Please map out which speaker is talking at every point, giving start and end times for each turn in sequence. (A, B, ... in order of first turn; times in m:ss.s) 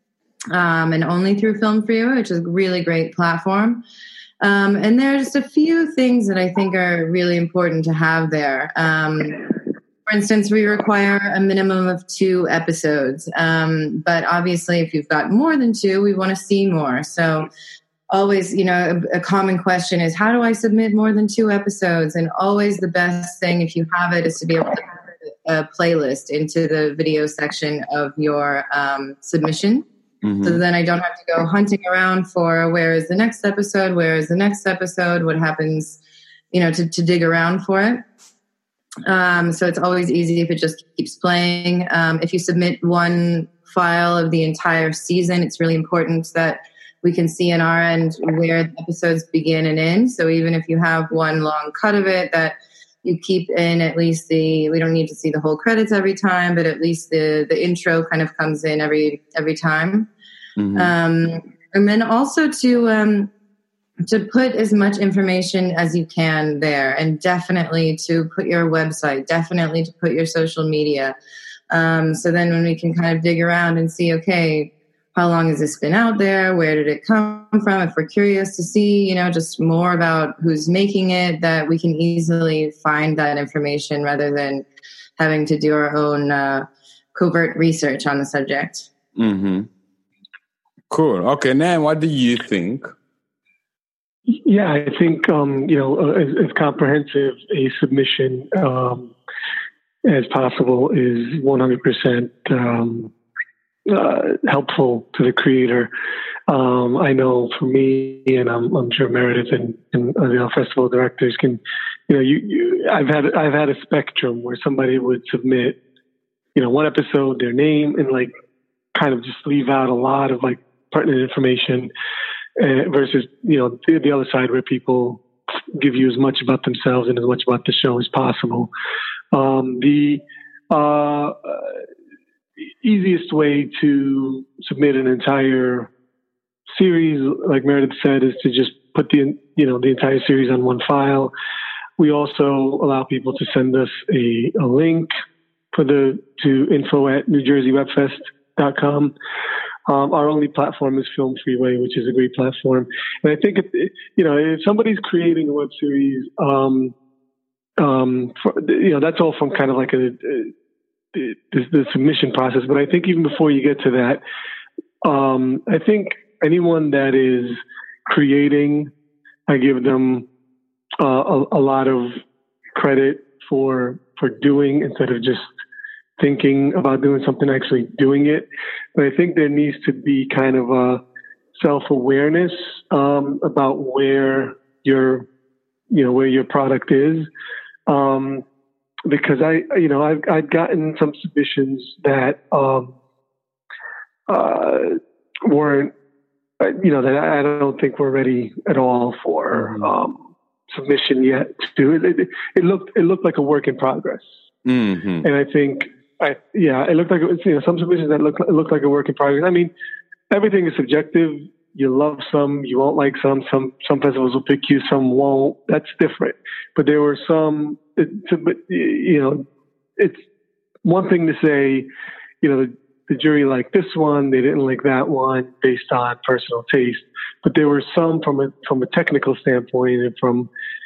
0:00.5-0:03.8 A
0:04.4-0:09.5 A
0:10.1-0:17.5 A
0:18.1-0:29.9 A
0:30.2-0:30.6 B
0:30.4-0:36.0 A
0:36.5-0:38.0 A
0:39.0-1:00.1 A
1:00.6-1:00.9 B
1:00.8-1:03.3 A
1:04.1-1:11.2 A
1:11.7-1:24.6 A
1:25.2-1:28.9 A
1:29.2-1:29.7 B
1:30.9-1:32.9 B
1:34.3-1:39.1 C
1:40.0-1:43.1 C
1:43.9-1:45.9 C
1:46.5-1:55.8 C
1:56.6-1:58.3 C
1:58.9-2:01.9 C
2:02.6-2:05.2 C
2:05.7-2:08.7 C
2:09.3-2:11.8 C
2:12.8-2:15.9 C
2:16.7-2:21.3 C
2:22.0-2:25.1 C
2:25.7-2:29.1 C
2:29.9-2:36.9 C
2:37.8-2:40.5 C
2:41.1-2:44.2 C
2:45.0-2:48.9 C
2:49.5-2:50.3 C
2:51.0-2:52.2 C
2:52.7-2:55.5 C
2:56.2-3:01.0 C
3:01.6-3:05.3 C
3:05.9-3:07.3 C
3:07.9-3:08.4 C
3:09.1-3:13.0 C
3:14.3-3:15.9 C
3:16.6-3:24.3 C
3:19.6-3:19.9 B
3:24.6-3:25.3 B
3:25.2-3:29.7 C
3:30.3-3:39.4 C
3:40.0-3:40.2 C
3:40.8-3:41.9 C
3:42.4-3:50.5 C